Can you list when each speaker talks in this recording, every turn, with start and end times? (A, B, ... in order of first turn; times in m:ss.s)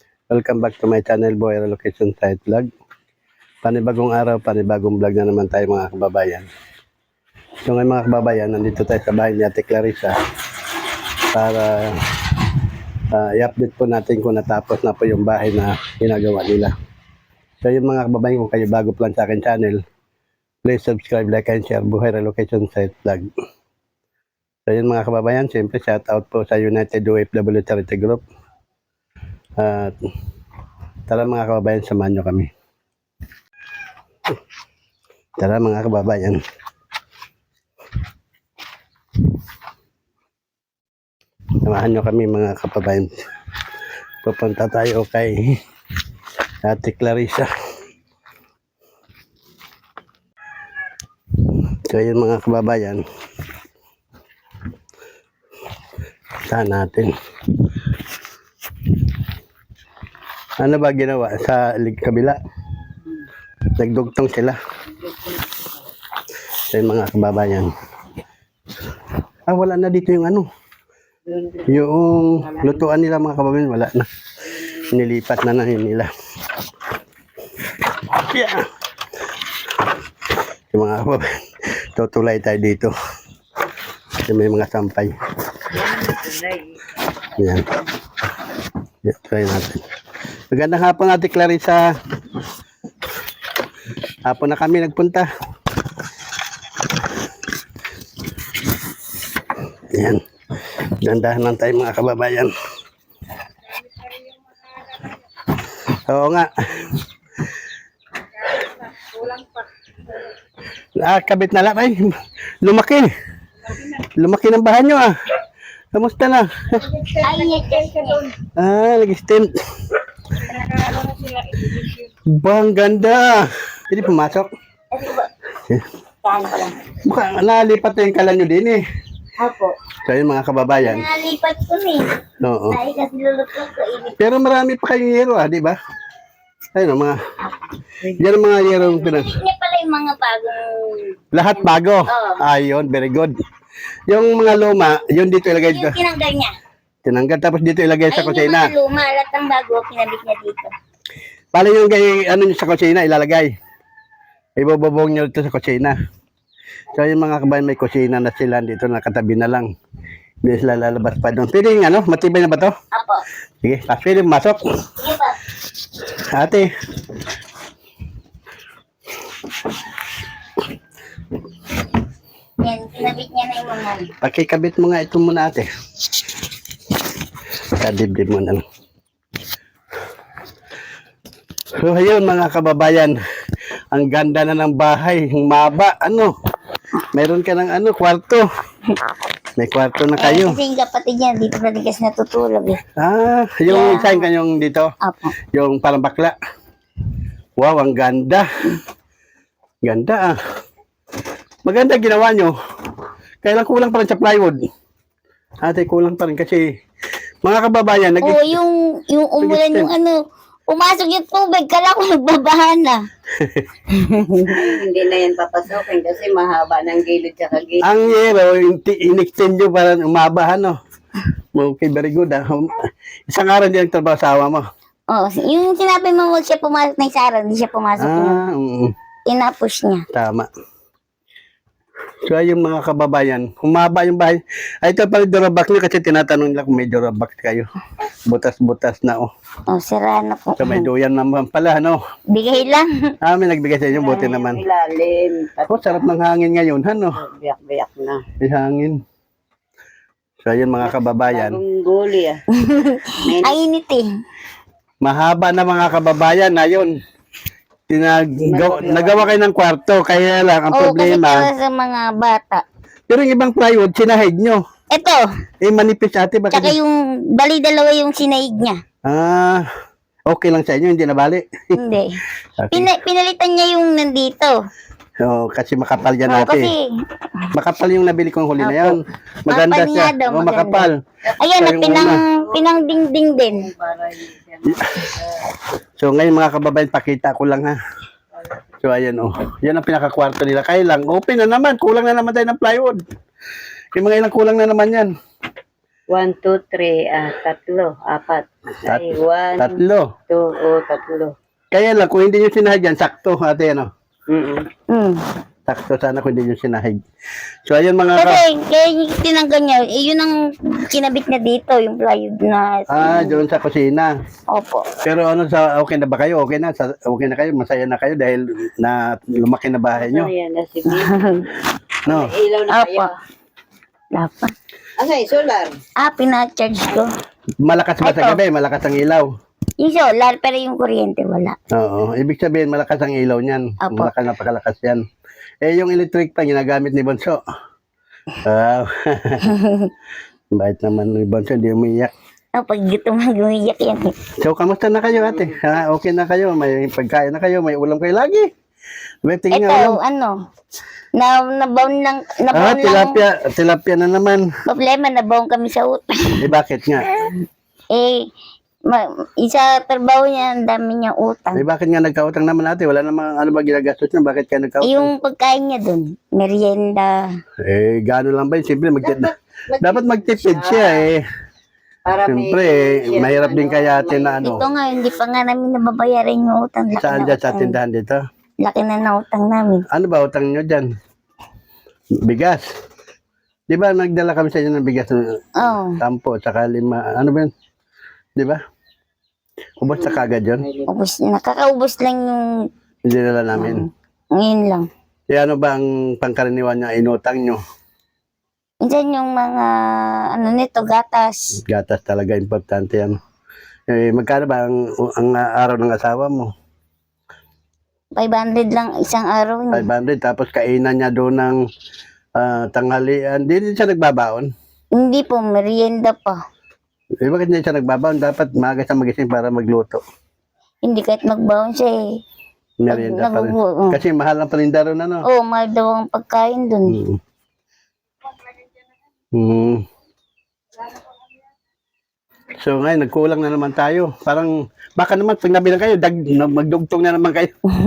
0:00.3-0:02.7 A
0:03.6-0:06.5 A
0:07.6-0:10.2 A
0:11.3-0:12.0 A
0:13.1-0:16.7 A
0:17.6-0:19.8 A
0:20.6-0:23.3 A
0:24.7-0:28.2 A
0:29.6-0:30.0 A
0:31.1-0:32.5 A
0:35.4-0:36.4 A
0:41.6-0:43.1 A
0:44.2-0:45.6 A
0:46.6-0:47.5 A
0:51.9-0:53.0 A
0:56.4-0:57.1 A
1:00.6-1:02.4 A
1:03.8-1:04.6 A
1:05.0-1:05.7 B
1:06.7-1:07.7 A
1:09.5-1:10.5 A
1:11.3-1:11.8 B
1:11.7-1:14.1 A
1:12.4-1:12.8 B
1:14.9-1:16.1 A
1:18.0-1:18.6 A
1:20.7-1:21.3 A
1:21.9-1:22.9 A
1:24.2-1:25.1 A
1:25.7-1:27.2 B
1:27.4-1:27.7 A
1:29.0-1:29.8 A
1:30.5-1:31.9 A
1:34.2-1:35.3 A
1:39.9-1:40.2 A
1:40.8-1:42.5 A
1:45.9-1:46.9 A
1:51.0-1:53.1 A
1:53.7-1:55.1 A
1:55.9-1:57.0 A
1:57.1-1:58.3 C
1:58.6-1:59.5 A
2:02.3-2:04.5 A
2:04.9-2:05.3 C
2:06.2-2:06.7 C
2:07.0-2:08.8 A
2:09.4-2:09.7 C
2:10.0-2:11.0 A
2:10.8-2:12.1 C
2:12.4-2:12.8 A
2:12.7-2:14.2 C
2:14.2-2:15.8 A
2:16.7-2:17.2 A
2:18.2-2:19.3 A
2:18.8-2:21.1 C
2:21.3-2:23.3 A
2:22.1-2:22.4 C
2:24.1-2:26.0 A
2:25.6-2:26.5 C
2:27.0-2:28.7 A
2:28.1-2:30.7 C
2:31.5-2:33.5 A
2:34.6-2:36.0 A
2:36.9-2:39.7 A
2:40.4-2:42.7 A
2:42.9-2:43.2 C
2:43.6-2:44.6 A
2:45.0-2:45.3 C
2:46.2-2:46.7 A
2:52.6-2:54.1 C
2:54.2-2:55.7 A
2:57.8-2:58.6 A
3:01.8-3:03.2 A
3:03.9-3:06.3 A
3:07.1-3:08.4 A
3:09.6-3:10.6 A
3:10.2-3:12.8 C
3:13.0-3:14.9 A
3:13.7-3:14.2 C
3:15.0-3:15.3 C
3:15.5-3:16.4 A
3:17.6-3:18.4 A
3:19.8-3:20.4 A
3:21.6-3:22.5 A
3:23.4-3:24.6 A
3:25.6-3:26.6 A
3:27.4-3:28.6 A
3:28.2-3:33.0 C
3:29.4-3:29.9 A
3:33.4-3:33.7 A
3:33.9-3:34.5 C
3:34.4-3:37.9 B
3:37.8-3:40.8 A
3:41.5-3:42.7 A
3:43.3-3:44.6 A
3:45.1-3:48.4 C
3:48.0-3:48.9 A
3:49.3-3:50.0 C
3:50.1-3:50.5 A
3:52.2-3:57.7 A
3:58.3-3:59.3 A
3:59.7-4:00.8 C
4:00.6-4:02.0 A
4:02.3-4:03.1 C
4:03.2-4:04.6 A
4:03.9-4:06.1 B
4:05.7-4:07.2 A
4:07.1-4:08.2 B
4:08.4-4:09.0 A
4:10.4-4:11.6 A
4:10.8-4:12.4 B
4:12.6-4:14.1 C
4:13.2-4:13.6 B
4:15.0-4:16.9 A
4:17.9-4:21.5 A
4:18.4-4:19.4 B
4:20.7-4:22.6 C
4:23.1-4:24.6 A
4:24.9-4:25.2 C
4:25.6-4:26.8 A
4:26.5-4:28.8 C
4:29.0-4:29.6 A
4:30.3-4:31.5 A
4:31.8-4:32.1 C
4:32.6-4:32.9 A
4:32.7-4:34.5 C
4:35.2-4:36.7 A
4:36.3-4:36.8 C
4:37.5-4:41.0 A
4:38.6-4:39.0 C
4:39.5-4:40.9 C
4:41.4-4:43.7 C
4:41.6-4:42.2 A
4:41.8-4:45.5 B
4:46.0-4:47.8 A
4:48.8-4:53.0 A
4:53.9-4:55.1 A
4:56.1-4:59.8 B
4:59.6-5:00.1 A
5:00.3-5:01.3 B
5:01.7-5:03.9 A
5:04.3-5:04.6 B
5:04.9-5:05.2 C
5:05.7-5:07.0 A
5:07.6-5:08.4 A
5:08.2-5:13.4 C
5:12.9-5:14.1 A
5:14.5-5:14.9 C
5:15.0-5:20.3 A
5:19.9-5:21.4 B
5:20.9-5:21.4 C
5:22.0-5:22.3 A
5:22.0-5:23.1 B
5:22.7-5:23.1 C
5:24.1-5:24.5 C
5:25.0-5:25.7 B
5:26.0-5:27.1 C
5:27.6-5:29.3 A
5:28.0-5:28.4 C
5:29.8-5:31.6 C
5:31.7-5:35.0 A
5:33.8-5:34.1 C
5:35.6-5:37.4 A
5:38.4-5:39.5 A
5:39.5-5:39.9 C
5:40.5-5:42.1 A
5:42.6-5:44.1 C
5:44.4-5:48.4 A
5:49.2-5:50.0 A
5:49.5-5:50.3 C
5:51.2-5:53.2 C
5:52.5-5:54.4 A
5:54.7-5:56.4 C
5:56.4-5:57.1 A
5:57.9-5:58.2 C
5:58.8-6:01.6 C
6:01.5-6:05.1 A
6:04.8-6:07.2 C
6:07.6-6:09.3 A
6:09.0-6:11.1 B
6:09.8-6:11.2 A
6:12.0-6:14.9 B
6:12.2-6:14.6 A
6:14.4-6:17.8 C
6:17.0-6:18.2 A
6:18.6-6:19.8 C
6:19.9-6:20.9 A
6:22.2-6:22.6 A
6:23.7-6:27.5 A
6:25.6-6:26.0 C
6:29.8-6:30.6 A
6:29.9-6:30.9 B
6:30.9-6:32.4 C
6:33.0-6:33.8 A
6:33.5-6:34.8 C
6:35.3-6:37.6 A
6:38.8-6:41.5 C
6:41.6-6:43.2 A
6:43.9-6:46.5 A
6:48.2-6:49.9 C
6:49.7-6:51.6 A
6:52.4-6:54.5 A
6:55.0-6:56.4 C
6:57.2-7:00.0 A
7:00.8-7:02.0 C
7:02.8-7:05.2 A
7:02.9-7:04.0 C
7:05.2-7:07.0 C
7:06.9-7:07.2 A
7:09.3-7:09.8 A
7:12.6-7:17.5 A